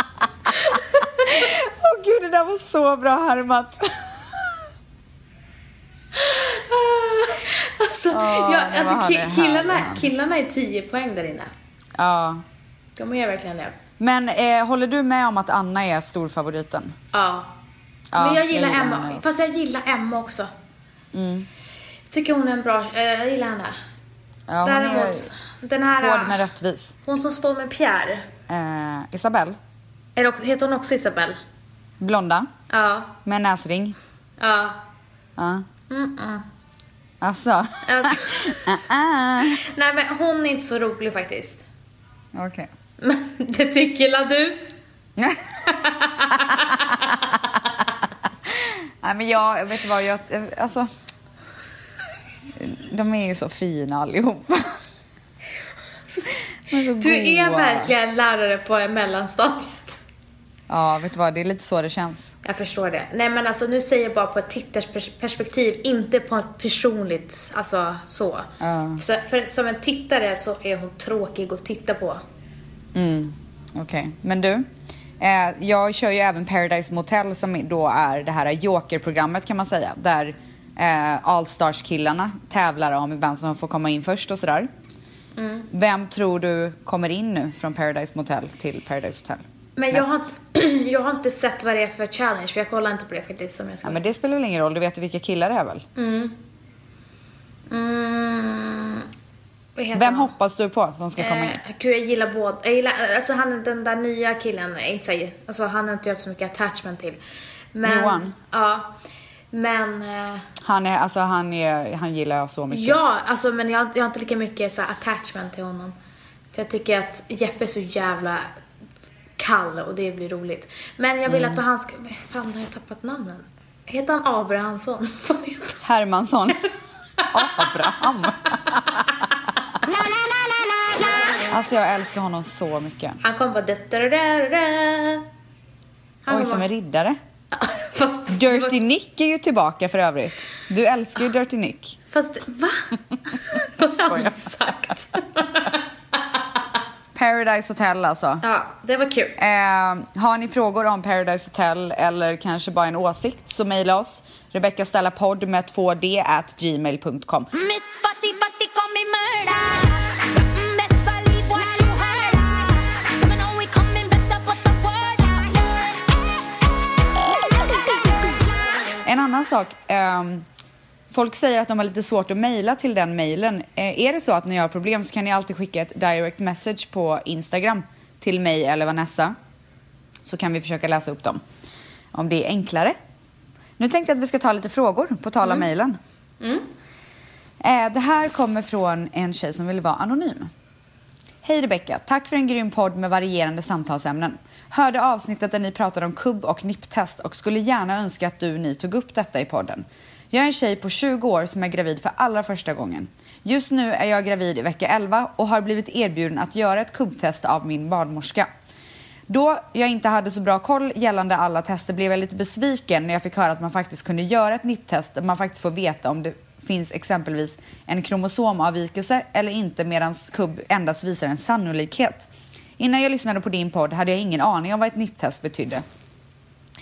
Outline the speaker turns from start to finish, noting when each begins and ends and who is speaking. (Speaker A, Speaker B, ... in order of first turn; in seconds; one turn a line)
Speaker A: 0.5-4.6
Speaker B: 6.1-11.5
Speaker A: 8.1-10.1
Speaker A: 12.0-12.4
Speaker B: 13.0-13.8
Speaker A: 14.0-17.0
Speaker B: 17.1-17.5
Speaker A: 18.1-19.2
Speaker B: 18.1-20.5
Speaker A: 21.1-21.5
Speaker B: 22.1-23.7
Speaker A: 24.5-25.3
Speaker B: 24.6-26.4
Speaker A: 25.9-27.0
Speaker B: 27.1-28.3
Speaker A: 28.5-29.6
Speaker B: 30.2-31.4
Speaker A: 32.0-32.5
Speaker B: 32.7-33.2
Speaker A: 33.2-34.0
Speaker B: 34.4-34.8
Speaker A: 35.4-35.7
Speaker B: 35.9-36.5
Speaker A: 37.2-39.6
Speaker B: 37.9-38.6
Speaker B: 39.4-41.6
Speaker A: 42.3-42.7
Speaker B: 43.0-44.7
Speaker A: 45.2-45.6
Speaker B: 45.7-47.2
Speaker A: 46.5-47.1
Speaker A: 48.6-50.9
Speaker A: 52.6-54.8
Speaker B: 56.1-60.0
Speaker A: 56.7-57.9
Speaker A: 60.7-62.3
Speaker B: 62.4-72.2
Speaker A: 68.6-69.0
Speaker A: 73.0-74.7
Speaker A: 75.2-84.7
Speaker B: 85.4-85.7
Speaker A: 85.7-90.2
Speaker B: 89.8-94.0
Speaker A: 93.8-95.9
Speaker B: 96.0-96.4
Speaker B: 97.7-99.1
Speaker B: 99.8-100.3
Speaker A: 99.9-101.6
Speaker B: 101.2-107.2
Speaker B: 107.7-109.0
Speaker A: 107.8-108.3
Speaker B: 109.5-110.5
Speaker A: 110.6-113.0
Speaker B: 112.7-116.0
Speaker B: 116.5-118.5
Speaker B: 119.4-125.8
Speaker A: 121.3-121.6
Speaker A: 125.8-126.7
Speaker B: 127.2-128.0
Speaker A: 127.3-129.2
Speaker A: 131.5-133.2
Speaker B: 133.2-135.2
Speaker B: 136.2-136.7
Speaker A: 136.3-137.2
Speaker B: 137.5-138.8
Speaker A: 138.3-142.0
Speaker B: 142.1-146.6
Speaker A: 144.0-144.5
Speaker A: 147.2-148.4
Speaker B: 148.4-149.4
Speaker A: 149.4-157.5
Speaker C: 157.5-166.4
Speaker A: 169.1-170.4
Speaker A: 171.1-179.3
Speaker A: 180.3-181.4
Speaker A: 182.1-182.9
Speaker A: 183.8-186.0
Speaker B: 186.4-186.7
Speaker A: 187.6-190.5
Speaker A: 191.4-208.5
Speaker A: 209.3-222.3
Speaker A: 222.8-225.8